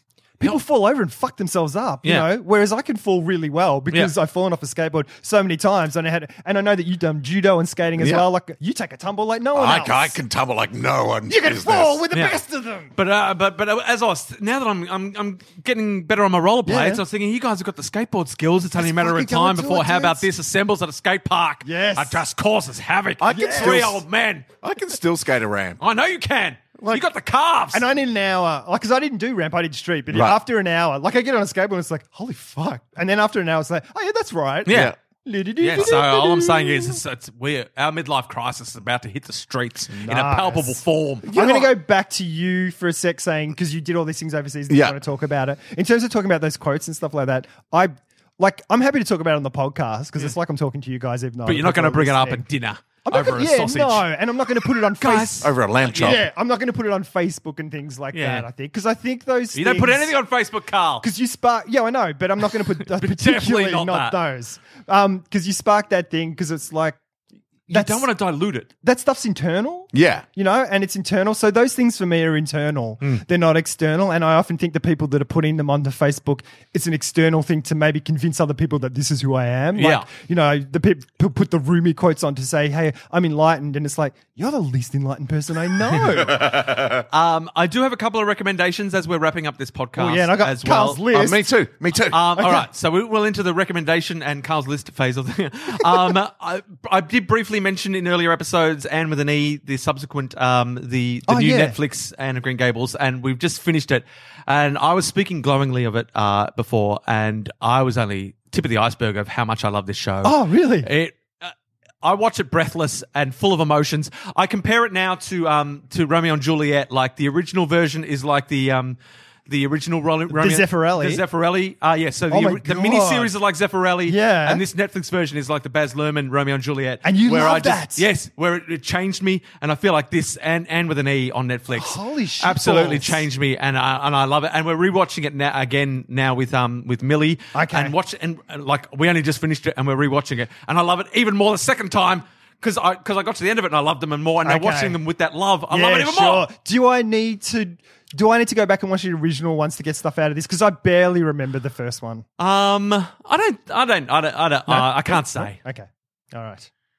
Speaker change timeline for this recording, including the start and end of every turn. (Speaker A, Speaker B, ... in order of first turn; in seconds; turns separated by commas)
Speaker A: 0.4-10.2, Speaker B: 8.0-8.2, Speaker B: 9.5-12.0, Speaker A: 11.3-12.9, Speaker C: 12.1-12.4, Speaker C: 12.9-24.4, Speaker A: 16.6-17.0, Speaker A: 18.8-20.2, Speaker A: 21.6-22.2, Speaker B: 23.2-24.0, Speaker A: 23.3-23.9, Speaker B: 24.6-25.8, Speaker C: 25.8-27.8, Speaker A: 27.7-37.0, Speaker B: 30.1-30.4, Speaker C: 34.6-34.9, Speaker B: 34.7-34.9, Speaker C: 35.6-41.3, Speaker A: 40.0-52.4, Speaker B: 41.3-41.7, Speaker B: 44.7-45.0, Speaker C: 51.4-54.0, Speaker A: 53.0-55.5, Speaker C: 55.0-56.2, Speaker B: 55.4-56.2, Speaker A: 56.0-60.1, Speaker C: 58.1-58.5, Speaker C: 59.5-61.0, Speaker A: 61.0-67.0, Speaker C: 62.8-64.2, Speaker C: 67.7-68.7, Speaker A: 67.7-68.1, Speaker A: 68.8-86.7, Speaker B: 69.9-70.2, Speaker C: 79.8-80.1, Speaker B: 86.2-87.0, Speaker C: 87.1-91.0, Speaker A: 90.0-91.4, Speaker B: 91.1-92.3, Speaker C: 92.1-119.0, Speaker A: 92.3-92.7, Speaker A: 101.3-101.8, Speaker A: 110.2-110.9, Speaker C: 119.5-146.5, Speaker A: 120.3-121.2, Speaker A: 122.3-123.3, Speaker A: 124.0-124.6, Speaker A: 127.0-128.1, Speaker A: 131.7-133.2, Speaker A: 137.5-137.9, Speaker A: 144.4-145.0, Speaker A: 145.7-152.2, Speaker C: 152.4-155.6, Speaker A: 154.7-156.7